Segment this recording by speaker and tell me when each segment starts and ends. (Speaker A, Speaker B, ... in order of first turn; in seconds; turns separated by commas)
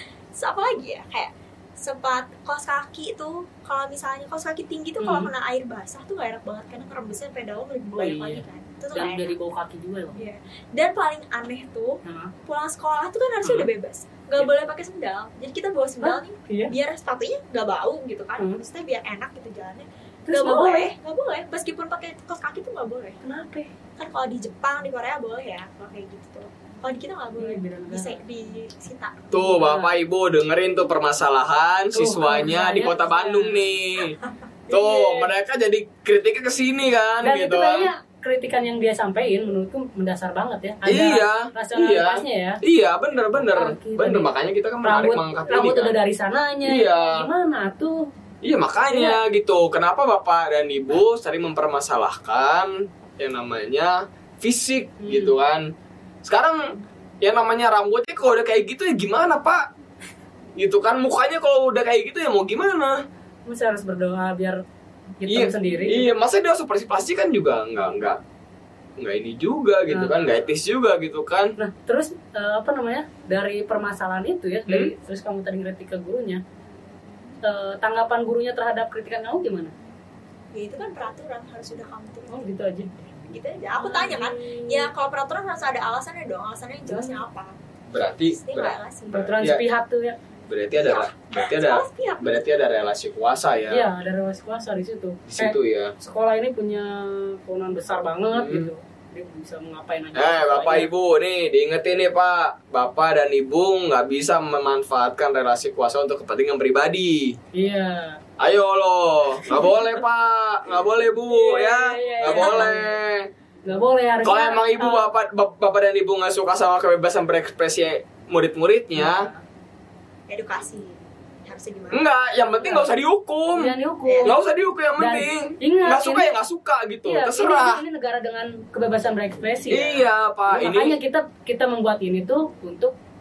Speaker A: 0.3-9.4, Speaker B: 5.0-5.3, Speaker B: 7.9-10.2, Speaker A: 10.2-23.2, Speaker B: 12.0-12.3, Speaker B: 13.4-13.7, Speaker B: 16.0-16.7, Speaker B: 20.3-20.9, Speaker B: 23.2-23.7, Speaker A: 24.0-29.2, Speaker B: 27.4-28.2, Speaker C: 29.3-34.2, Speaker B: 29.4-29.9, Speaker B: 31.9-33.7, Speaker B: 34.7-35.3, Speaker C: 34.7-37.9, Speaker B: 37.2-42.6, Speaker C: 40.8-46.0, Speaker B: 43.3-44.3, Speaker B: 44.8-48.1, Speaker C: 46.6-47.3, Speaker C: 48.4-55.7, Speaker B: 48.9-49.2, Speaker B: 55.0-55.3, Speaker C: 56.2-59.7, Speaker C: 60.5-63.0, Speaker B: 63.5-64.6, Speaker B: 65.2-66.1, Speaker C: 65.2-68.2, Speaker C: 69.0-71.5, Speaker B: 69.9-70.4, Speaker B: 71.6-76.4, Speaker C: 74.7-74.9, Speaker B: 77.4-79.7, Speaker A: 80.5-82.5, Speaker B: 82.3-84.9, Speaker A: 83.3-87.5, Speaker B: 86.9-87.2, Speaker C: 87.9-89.6, Speaker A: 88.3-89.3, Speaker B: 89.1-90.2, Speaker C: 90.5-93.9, Speaker A: 90.8-92.4, Speaker B: 93.7-100.9, Speaker C: 95.3-95.9, Speaker C: 98.3-98.7, Speaker C: 100.1-107.4, Speaker B: 107.5-108.2, Speaker C: 108.4-113.3, Speaker B: 111.3-112.9, Speaker B: 113.7-115.1, Speaker C: 114.2-119.3, Speaker B: 119.0-119.4, Speaker A: 120.3-121.0, Speaker A: 121.5-122.0, Speaker C: 121.9-123.7, Speaker B: 122.6-122.9, Speaker B: 123.5-124.3, Speaker A: 124.0-124.3, Speaker C: 124.2-127.8, Speaker B: 125.0-126.3, Speaker B: 127.0-132.9, Speaker C: 129.7-131.0